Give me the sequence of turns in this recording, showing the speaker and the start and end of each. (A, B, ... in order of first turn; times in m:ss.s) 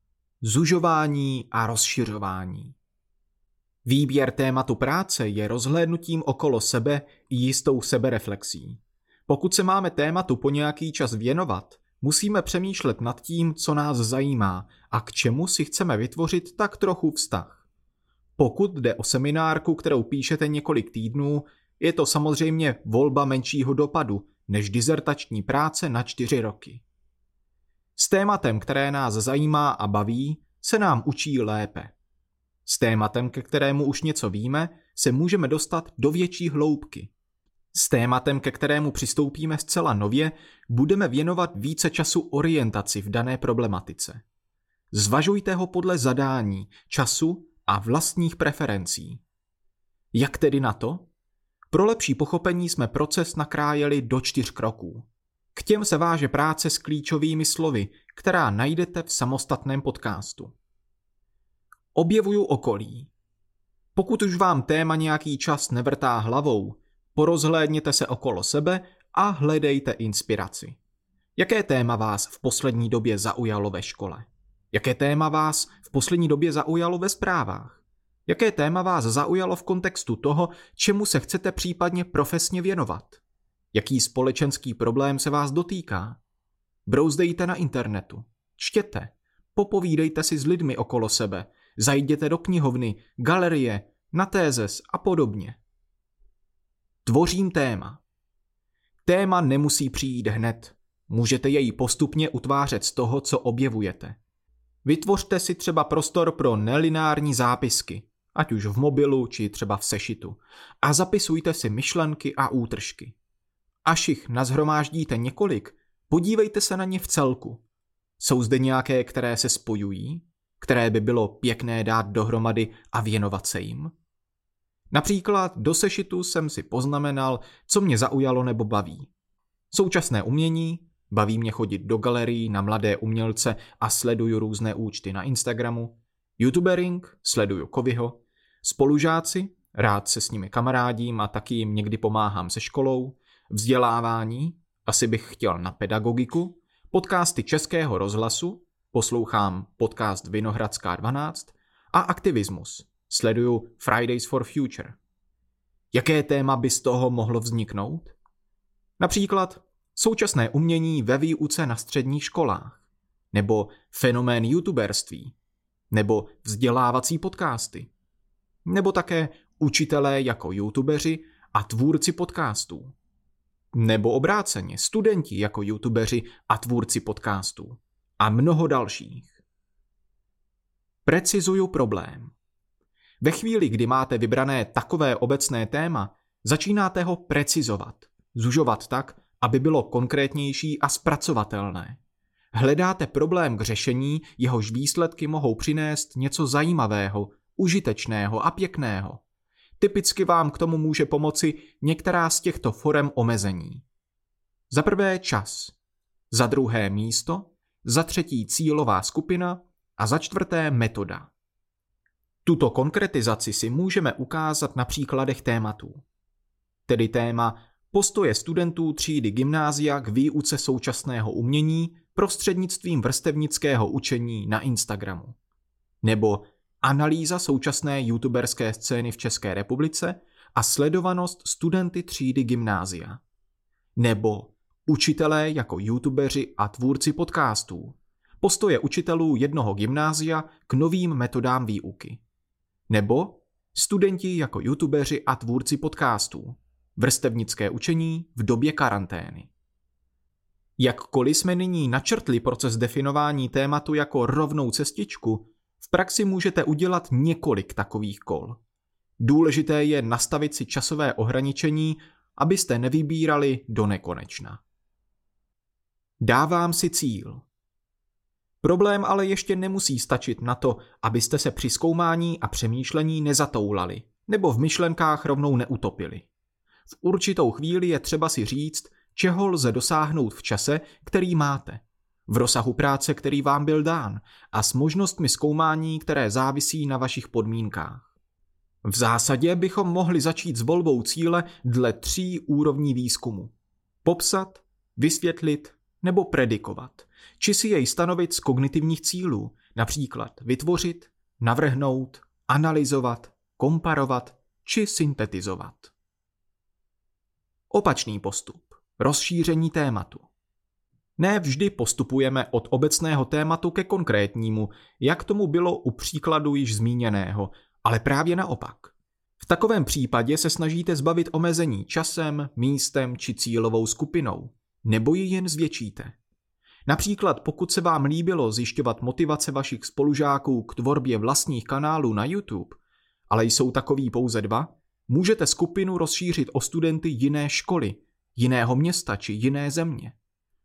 0:00.4-0:02.8 A
0:03.8-0:17.6 A
0:18.4-0:26.8 A
0:28.0-0:31.9 A
0:32.6-0:37.1 A
0:37.7-0:44.2 A
0:44.9-0:49.2 A
0:50.1-0:51.1 A
0:51.7-1:00.6 A
1:01.9-1:03.1 A
1:04.0-1:10.8 A
1:11.4-1:23.2 A
1:23.7-1:26.2 A
1:26.9-1:35.6 A
1:37.0-1:38.0 A
1:39.0-1:44.2 A
1:44.8-1:53.2 A
1:53.8-1:57.6 A
1:58.2-2:03.9 A
2:04.9-2:09.1 A
2:09.7-2:35.0 A
2:35.9-2:38.2 A
2:39.0-2:45.3 A
2:45.9-2:47.9 A
2:48.6-2:52.9 A
2:53.7-2:59.4 A
3:01.0-3:02.3 A
3:03.2-3:12.0 A
3:12.5-3:19.2 A
3:19.8-3:23.8 A
3:24.7-3:25.7 A
3:26.3-3:31.3 A
3:32.4-3:36.0 A
3:36.9-3:45.4 A
3:46.0-3:53.2 A
3:54.0-4:02.2 A
4:02.9-4:09.5 A
4:10.8-4:18.6 A
4:19.2-4:24.6 A
4:26.2-4:27.4 A
4:28.6-4:36.3 A
4:37.0-4:48.1 A
4:48.8-4:53.5 A
4:54.0-5:05.9 A
5:07.7-5:10.3 A
5:11.2-5:26.2 A
5:26.9-5:40.2 A